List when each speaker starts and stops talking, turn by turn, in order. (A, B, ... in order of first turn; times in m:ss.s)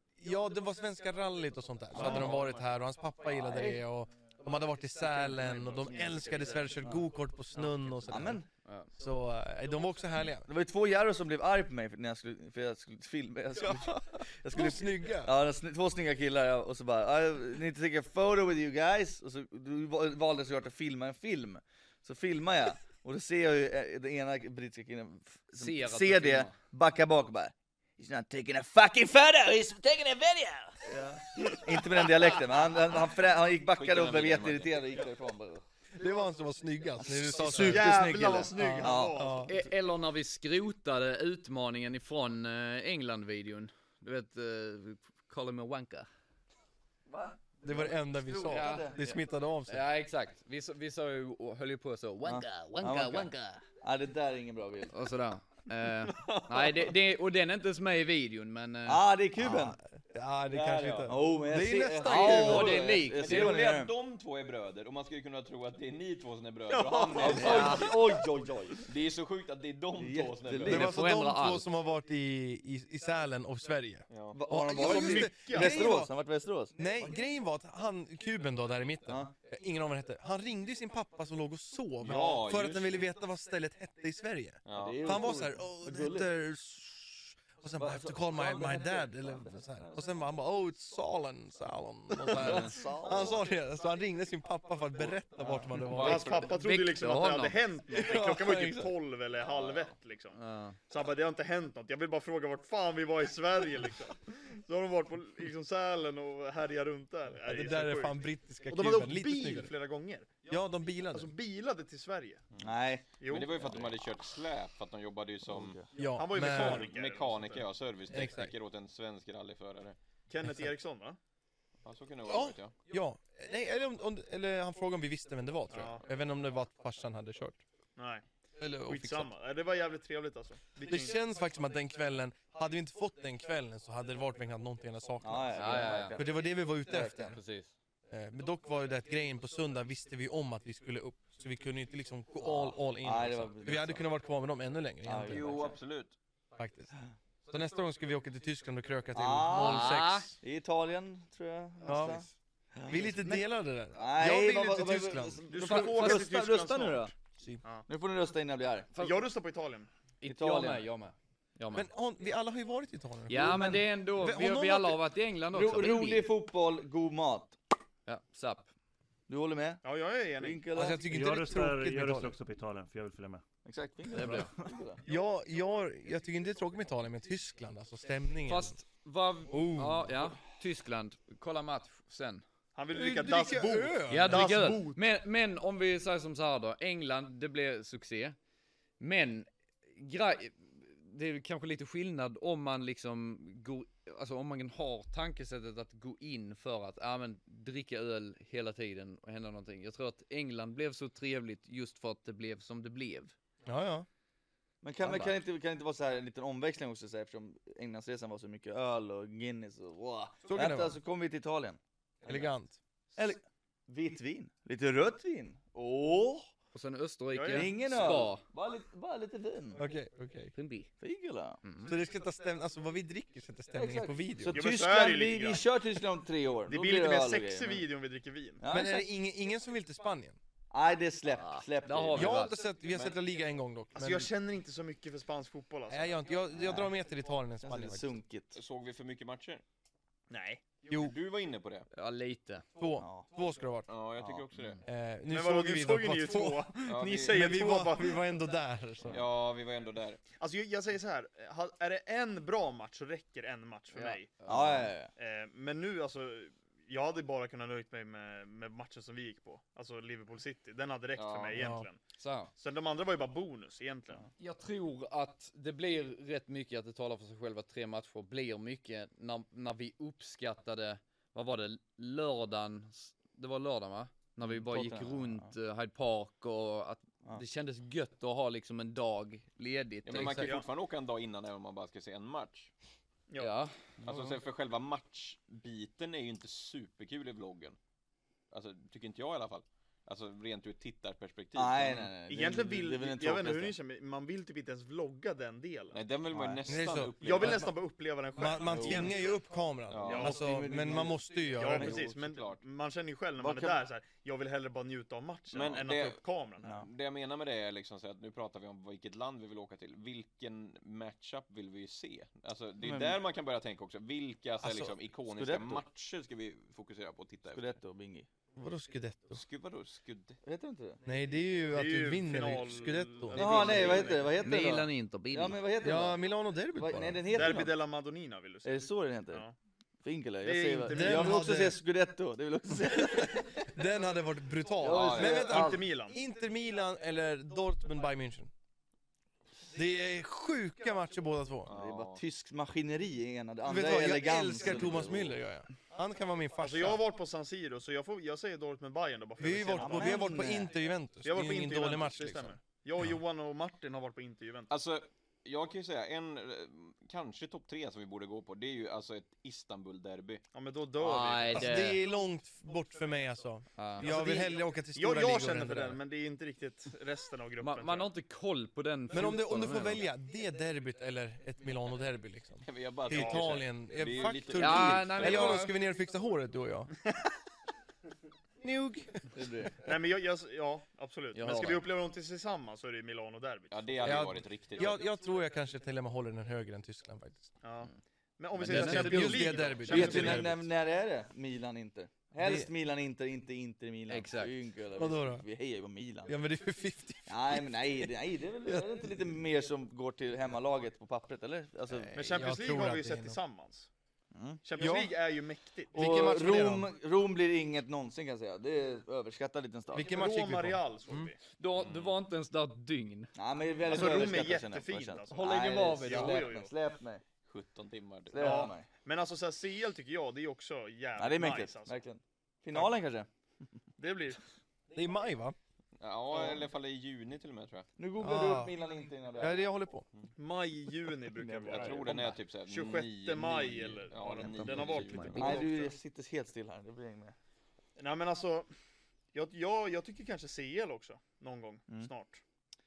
0:00.2-0:10.5 A
0:01.9-0:02.4 B
0:03.3-0:03.8 B
0:05.2-0:07.0 B
0:08.1-0:08.5 B
0:08.2-0:08.9 C
0:10.4-0:35.6 B
0:13.6-0:15.3 A
0:25.6-0:26.5 C
0:31.4-0:31.7 D
0:33.8-0:34.9 E
0:36.0-0:39.5 A
0:37.0-0:39.2 B
0:37.5-0:39.5 D
0:39.4-0:46.1 C
0:47.1-0:49.2 B
0:47.6-0:49.8 A
0:48.5-0:49.2 C
0:49.7-0:53.6 C
0:52.2-0:53.3 B
0:53.8-0:54.9 B
0:54.9-0:59.0 C
0:56.1-0:56.9 D
0:58.8-0:59.8 B
0:59.4-1:02.8 A
1:00.5-1:01.2 E
1:01.0-1:03.9 B
1:02.0-1:03.6 C
1:03.1-1:08.0 E
1:06.7-1:08.0 D
1:07.1-1:08.8 B
1:07.3-1:07.8 C
1:08.8-1:10.9 E
1:10.0-1:11.0 B
1:10.6-1:16.1 A
1:10.7-1:11.7 C
1:14.1-1:14.4 E
1:14.3-1:17.2 B
1:14.7-1:15.9 D
1:16.8-1:36.4 A
1:19.1-1:19.3 B
1:22.0-1:23.0 E
1:24.6-1:25.1 E
1:24.7-1:26.3 B
1:27.8-1:30.0 B
1:32.3-1:33.4 B
1:35.8-1:36.5 E
1:35.9-1:40.4 D
1:36.4-1:37.6 C
1:37.9-1:38.9 A
1:39.4-1:39.9 E
1:40.3-1:40.8 C
1:40.9-1:50.5 D
1:47.4-1:49.7 A
1:50.5-1:51.3 A
1:51.1-1:52.4 D
1:52.6-1:53.9 B
1:53.2-1:53.6 D
1:53.3-1:55.8 E
1:55.5-1:55.9 B
1:55.9-1:56.8 A
1:56.1-1:57.7 D
1:56.4-2:00.0 E
1:58.1-1:58.5 A
2:00.3-2:01.2 D
2:01.8-2:02.7 E
2:02.3-2:07.6 A
2:05.7-2:06.0 D
2:08.0-2:08.2 D
2:08.6-2:09.3 A
2:08.8-2:11.2 D
2:10.8-2:17.4 A
2:15.2-2:17.3 B
2:15.5-2:16.2 C
2:17.0-2:17.7 C
2:18.1-2:25.7 A
2:22.4-2:24.1 B
2:25.0-2:25.8 B
2:25.2-2:26.1 E
2:26.5-2:26.9 A
2:27.5-2:30.4 A
2:29.1-2:37.1 B
2:29.5-2:30.3 C
2:31.8-2:32.2 A
2:32.9-2:35.5 A
2:35.5-2:37.1 D
2:37.4-2:37.6 A
2:37.9-2:38.9 B
2:38.9-2:39.2 C
2:38.9-2:39.9 D
2:40.2-2:41.9 C
2:40.2-2:40.8 B
2:41.7-2:45.0 A
2:43.3-2:46.3 C
2:43.3-2:43.8 B
2:45.5-2:47.6 B
2:48.0-2:48.7 C
2:49.3-2:49.8 B
2:49.8-2:50.7 D
2:50.4-2:51.0 B
2:50.7-2:52.3 A
2:51.0-2:53.4 F
2:53.6-2:55.0 B
2:54.1-2:54.5 C
2:55.0-2:58.7 A
2:58.4-3:02.4 C
2:59.5-3:00.1 A
3:02.7-3:05.0 D
3:02.9-3:04.4 A
3:04.1-3:08.4 C
3:09.0-3:23.3 C
3:23.6-3:24.0 A
3:24.8-3:32.4 B
3:25.0-3:25.4 C
3:30.5-3:30.9 A
3:32.2-3:32.8 A
3:33.1-3:36.5 B
3:36.7-3:38.4 C
3:37.3-3:37.7 D
3:37.5-3:39.8 B
3:39.8-3:40.5 A
3:40.5-3:40.9 C
3:41.0-3:41.6 B
3:41.6-3:41.9 C
3:41.8-3:44.6 A
3:43.7-3:47.8 B
3:44.5-3:45.6 D
3:46.7-3:48.6 D
3:48.6-3:49.1 B
3:48.7-3:50.4 A
3:50.7-3:52.4 B
3:51.3-3:52.6 C
3:52.1-3:54.3 A
3:52.9-3:53.2 E
3:53.9-3:56.2 D
3:55.9-3:58.1 A
3:56.5-3:56.9 B
3:57.6-3:58.6 B
3:58.5-3:59.6 E
4:00.3-4:00.8 D
4:00.9-4:01.1 A
4:00.9-4:01.9 E
4:01.9-4:02.6 C
4:02.7-4:03.9 A
4:03.0-4:03.3 B
4:03.9-4:04.8 E
4:04.2-4:04.5 B
4:04.8-4:09.2 A
4:05.3-4:08.2 D
4:06.8-4:07.4 E
4:09.0-4:10.2 E
4:10.4-4:14.3 D
4:13.9-4:14.9 C
4:14.5-4:15.1 B
4:15.2-4:22.0 D
4:21.2-4:21.6 E
4:21.6-4:21.8 A
4:22.2-4:22.5 C
4:22.6-4:24.3 D
4:24.4-4:40.5 C
4:34.4-4:35.5 B
4:40.0-4:42.7 E
4:40.4-4:40.7 D
4:43.4-4:44.4 C
4:44.0-4:47.8 E
4:48.5-4:52.1 E
4:51.5-4:53.8 B
4:52.3-4:56.0 D
4:55.9-4:57.7 E
4:56.3-4:56.6 B
4:56.7-4:57.7 A
4:57.2-4:59.3 D
4:58.4-5:01.9 A
4:58.6-4:59.1 E
4:59.9-5:00.3 E
5:00.0-5:02.0 B
5:00.0-5:00.5 D
5:01.5-5:06.8 D
5:01.6-5:02.6 E
5:03.4-5:03.8 B
5:05.5-5:17.8 E
5:12.8-5:13.2 B
5:14.6-5:15.8 B
5:17.5-5:18.3 B
5:18.6-5:19.4 A
5:19.3-5:20.4 E
5:20.4-5:21.0 B
5:21.0-5:23.7 A
5:21.7-5:24.3 D
5:23.3-5:26.2 B
5:23.4-5:24.2 E
5:24.4-5:25.6 C
5:25.8-5:27.5 A
5:26.7-5:27.7 B
5:27.3-5:29.5 D
5:28.6-5:29.4 B
5:30.0-5:33.7 B
5:30.4-5:31.5 D
5:30.9-5:31.8 A
5:32.9-5:38.5 A
5:34.8-5:35.8 B
5:34.8-5:35.4 E
5:35.2-5:36.2 D
5:39.7-5:41.7 A
5:41.6-5:42.2 E
5:41.7-5:45.4 B
5:43.6-5:47.0 A
5:46.6-5:50.4 D
5:49.4-5:52.6 A
5:49.8-5:50.7 B
5:51.2-5:54.7 D
5:54.7-6:00.4 E
6:00.5-6:02.0 D
6:01.0-6:02.0 C
6:01.5-6:06.0 A
6:03.8-6:04.1 C
6:04.0-6:08.1 D
6:07.6-6:10.0 C
6:09.1-6:16.9 A
6:12.6-6:15.7 E
6:13.1-6:13.6 D
6:14.6-6:15.7 C
6:18.6-6:19.3 A
6:19.3-6:19.7 B
6:19.8-6:24.1 D
6:21.3-6:21.8 C
6:23.7-6:25.0 E
6:24.0-6:27.5 A
6:27.6-6:30.6 D
6:28.6-6:30.2 C
6:28.6-6:30.6 A
6:29.8-6:36.3 B
6:32.4-6:32.7 A
6:34.1-6:34.5 C
6:35.0-6:35.4 A
6:36.3-6:37.9 A
6:37.3-6:42.2 B
6:38.7-6:39.0 A
6:42.0-6:43.4 A
6:42.1-6:43.9 D
6:44.3-6:44.6 B
6:44.6-6:46.3 D
6:44.8-6:45.1 A
6:45.9-6:46.9 A
6:45.9-6:50.2 B
6:49.9-6:51.3 A
6:50.0-6:51.4 D
6:51.6-6:53.3 C
6:51.8-6:52.2 E
6:53.3-6:57.2 B
6:53.8-6:56.7 D
6:55.3-6:56.4 C
6:57.4-6:58.7 E
6:58.3-6:58.9 B
6:58.4-7:02.0 D
7:01.2-7:03.3 B
7:04.0-7:04.4 D
7:04.9-7:05.6 A
7:06.0-7:07.9 E
7:08.0-7:09.6 B
7:08.2-7:08.7 A
7:09.4-7:10.0 A
7:10.4-7:15.9 D
7:11.3-7:12.3 B
7:11.7-7:15.7 E
7:14.2-7:15.7 C
7:15.3-7:17.3 B
7:18.0-7:18.7 D
7:19.3-7:22.4 D